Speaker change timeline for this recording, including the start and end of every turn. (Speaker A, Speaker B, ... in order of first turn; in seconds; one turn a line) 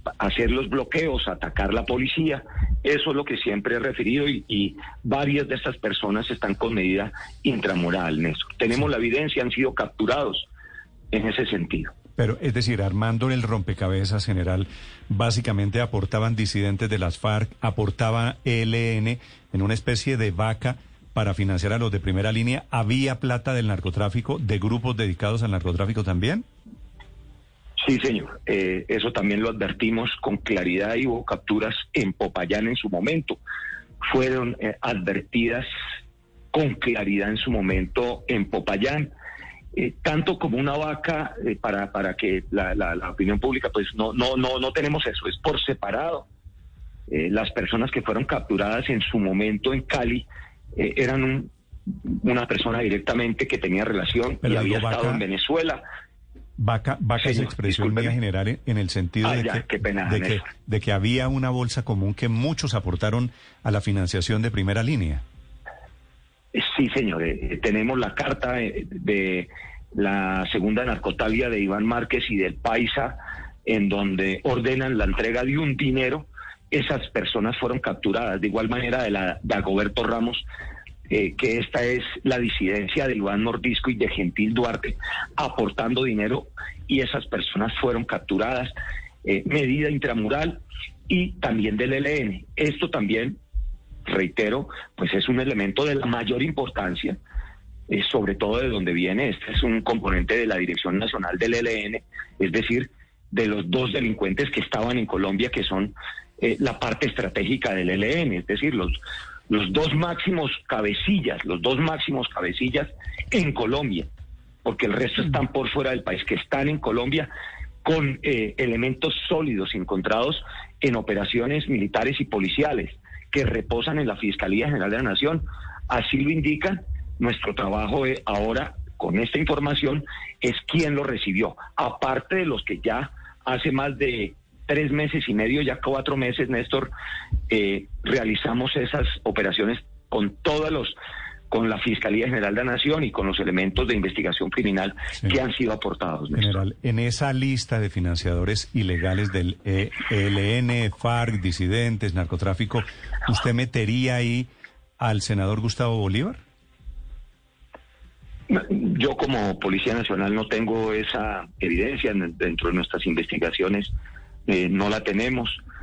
Speaker A: 0.2-10.5
Speaker A: 11.1-11.9
Speaker B: 12.2-26.4
Speaker A: 27.8-33.4
Speaker A: 34.0-35.7
Speaker A: 36.5-39.1
Speaker A: 39.7-46.3
Speaker A: 47.1-55.8
Speaker B: 54.4-55.2
Speaker B: 56.6-65.2
Speaker A: 57.2-58.2
Speaker A: 59.2-60.5
Speaker A: 66.5-80.4
Speaker A: 81.1-88.7
Speaker A: 89.2-93.4
Speaker A: 94.1-97.2
Speaker A: 97.9-109.0
Speaker A: 109.5-114.1
Speaker A: 114.6-117.3
Speaker A: 117.8-136.9
Speaker A: 137.5-140.9
Speaker A: 141.5-146.5
Speaker B: 146.3-156.4
Speaker A: 158.5-163.9
Speaker A: 164.5-165.6